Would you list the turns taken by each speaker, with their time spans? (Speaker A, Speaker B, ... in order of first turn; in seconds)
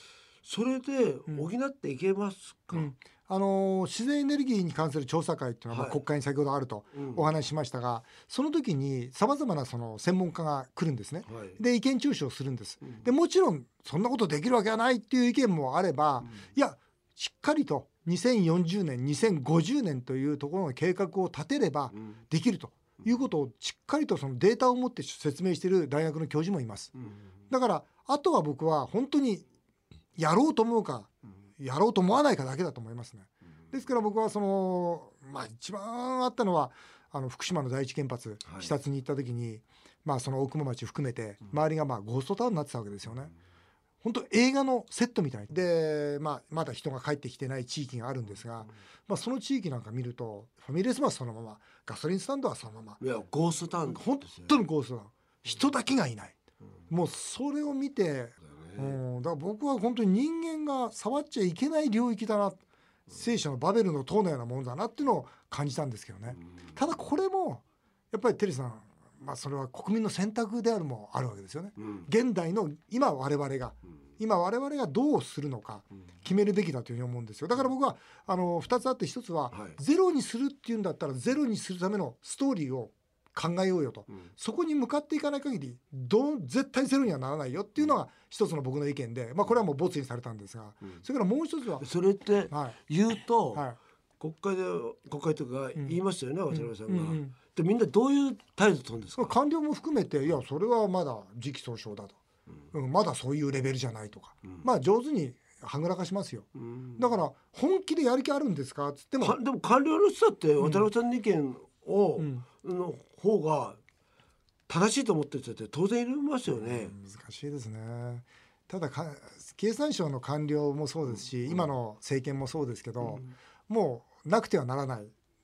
Speaker A: 0.4-2.9, 5.7-6.0, 7.0-7.3, 11.3-11.6, 38.5-38.7, 53.0-54.6, 58.4-59.0, 71.8-72.1, 79.5-79.8, 91.8-93.7, 94.2-99.3, 106.6-107.1, 109.2-113.8, 114.7-117.0, 121.2-121.7, 123.0-123.3
Speaker B: 2.7-26.9, 27.5-29.4, 30.2-43.3, 44.0-53.0, 53.9-56.4, 56.9-91.8, 92.5-92.8, 96.5-97.3, 99.2-102.2, 102.7-109.4, 110.6-110.9, 112.2-112.5, 116.6-125.1